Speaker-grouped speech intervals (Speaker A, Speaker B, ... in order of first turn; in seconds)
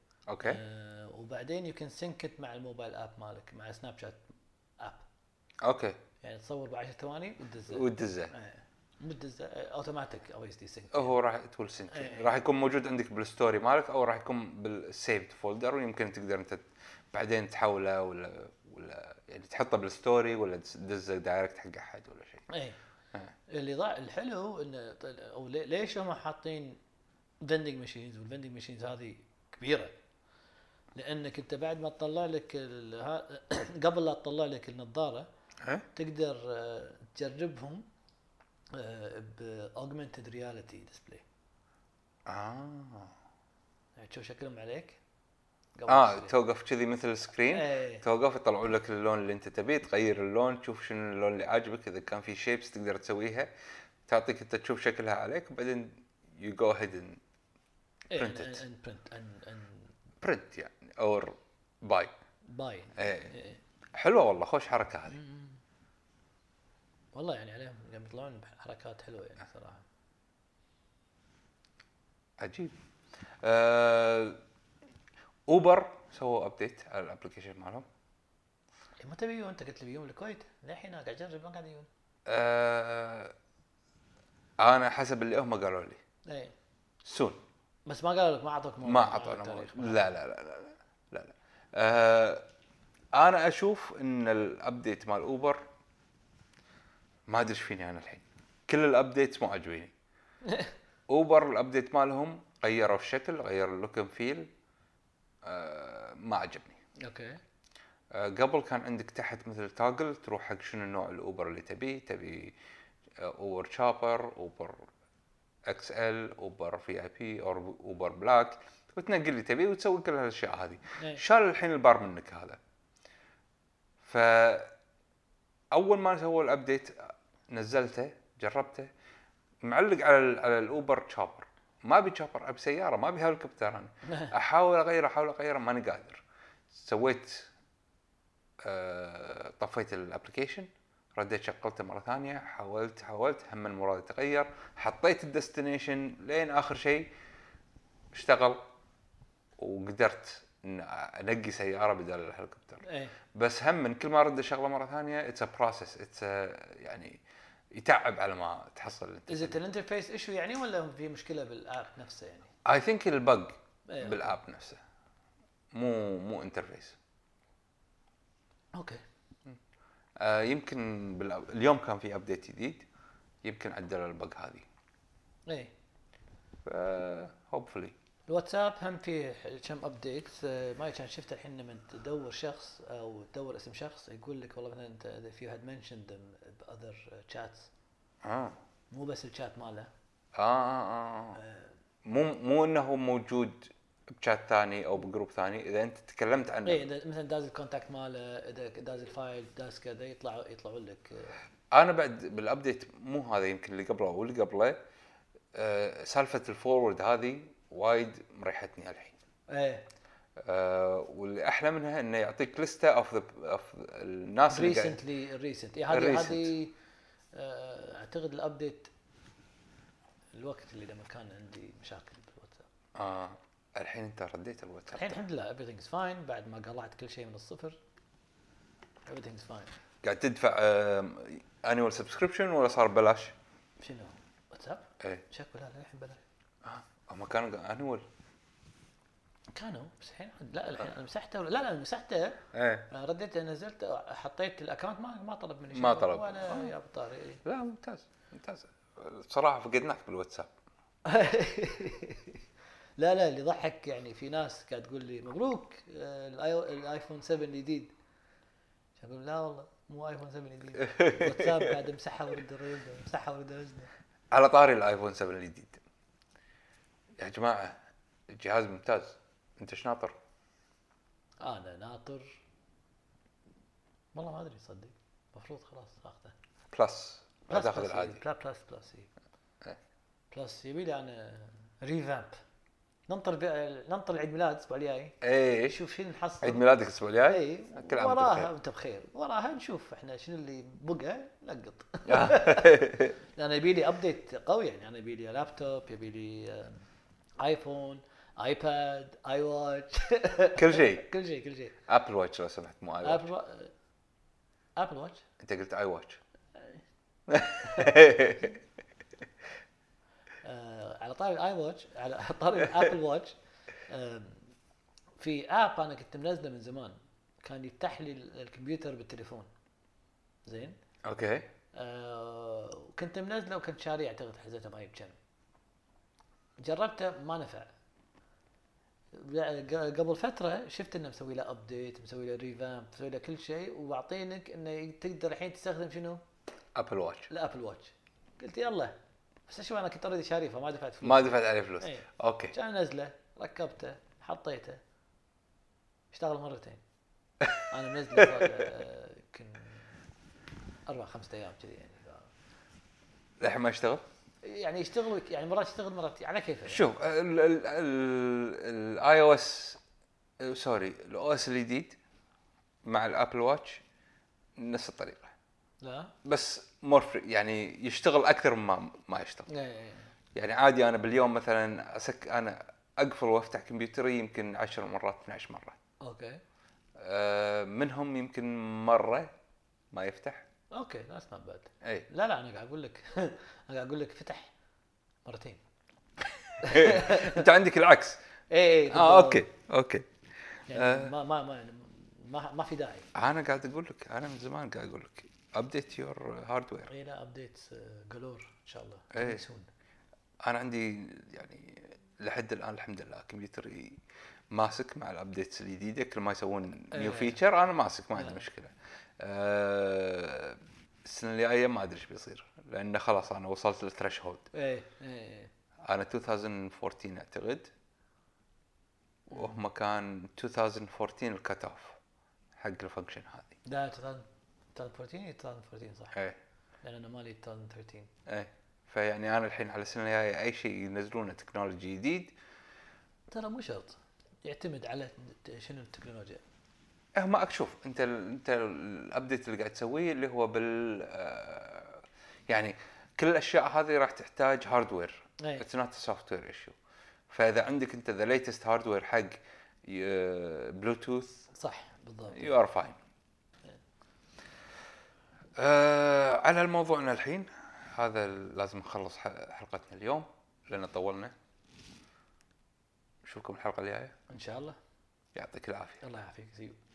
Speaker A: 0.3-0.6, 5.6-6.0, 7.7-8.3, 10.9-22.5, 35.6-35.9, 42.3-43.1, 45.9-53.5, 54.1-57.2, 58.1-58.6, 60.2-62.1, 63.0-63.4, 64.0-65.2, 72.4-72.7, 73.4-74.4, 75.5-77.9, 82.3-83.3, 84.6-86.0, 87.0-87.4, 88.8-92.5, 93.2-95.6, 97.3-99.9, 101.1-104.5, 105.5-106.8, 108.1-112.6, 113.2-114.9, 115.7-122.6, 124.0-124.7, 125.7-128.9, 129.6-137.5, 138.6-147.1, 148.1-148.7, 149.6-157.2, 157.8-159.6, 162.7-164.8, 165.7-167.0, 170.2-172.9, 173.4-174.7, 176.7-177.9, 188.2-188.6, 190.4-191.4, 192.1-196.8, 201.7-204.8, 205.5-209.2, 210.4-215.0, 215.9-216.5, 222.9-225.2, 230.0-233.3, 236.6-238.1, 242.5-242.9, 245.7-246.7, 247.4-250.5, 260.8-261.8, 264.3-265.8, 267.2-267.8, 268.3-270.2, 276.7-278.2, 285.2-285.8, 286.4-288.5, 292.1-293.1, 300.6-301.1, 301.9-303.3, 305.4-306.2, 307.3-308.6, 321.1-321.5, 336.8-337.3, 341.0-342.6, 353.4-354.0, 356.7-359.8, 360.4-362.0, 362.9-363.8, 364.6-365.3, 366.2-369.5, 370.4-375.8, 377.0-379.3, 379.9-380.5, 381.8-382.1, 386.6-388.2, 388.9-390.1, 390.7-391.1, 393.1-396.9, 399.1-399.4, 400.4-404.0, 404.5-414.5, 415.9-417.7, 419.3-422.0, 422.6-423.6, 426.1-426.4, 428.3-432.3, 437.2-446.8, 447.3-451.5, 452.3-453.0, 455.6-461.4, 463.2-464.2, 465.4-466.0
Speaker B: 0.4-5.1, 6.2-11.1, 11.9-12.3, 22.5-22.8, 23.5-26.8, 27.4-30.0, 30.9-35.3, 35.9-37.9, 38.7-41.2, 44.0-45.0, 45.8-46.4, 47.5-48.0, 58.1-59.9, 62.5-63.6, 65.1-65.6, 67.1-69.8, 79.0-81.9, 86.3-86.5, 87.9-90.2, 100.4-100.7, 107.0-107.4, 152.8-153.1, 159.3-162.5, 163.9-164.3, 168.8-169.0, 175.5-175.7, 178.3-187.7, 188.9-189.9, 191.4-191.8, 196.7-201.4, 209.5-209.9, 214.5-216.8, 217.3-218.9, 220.3-222.7, 224.9-227.8, 229.1-229.7, 233.8-236.2, 239.5-247.4, 251.1-252.4, 253.0-257.9, 259.0-263.9, 271.4-272.4, 274.1-276.4, 277.5-279.1, 280.3-282.4, 283.1-286.7, 287.3-296.9, 297.4-301.8, 303.0-303.7, 304.8-305.2, 307.6-308.4, 310.4-313.4, 313.9-314.5, 315.2-319.5, 320.4-320.8, 321.7-325.2, 326.6-327.7, 329.1-336.2, 337.3-339.0, 339.5-344.8, 346.1-346.8, 347.7-350.0, 350.9-352.3, 354.4-356.9, 365.8-366.1, 369.5-370.1, 376.0-376.4, 380.7-384.5, 385.2-385.6, 386.6-387.5, 388.5-389.4, 390.7-393.1, 396.9-399.7, 406.9-407.4, 408.1-408.4, 414.5-415.5, 419.3-419.6, 423.6-426.2, 426.8-428.1, 433.3-436.4, 451.5-452.6, 464.3-464.8, 466.0-466.8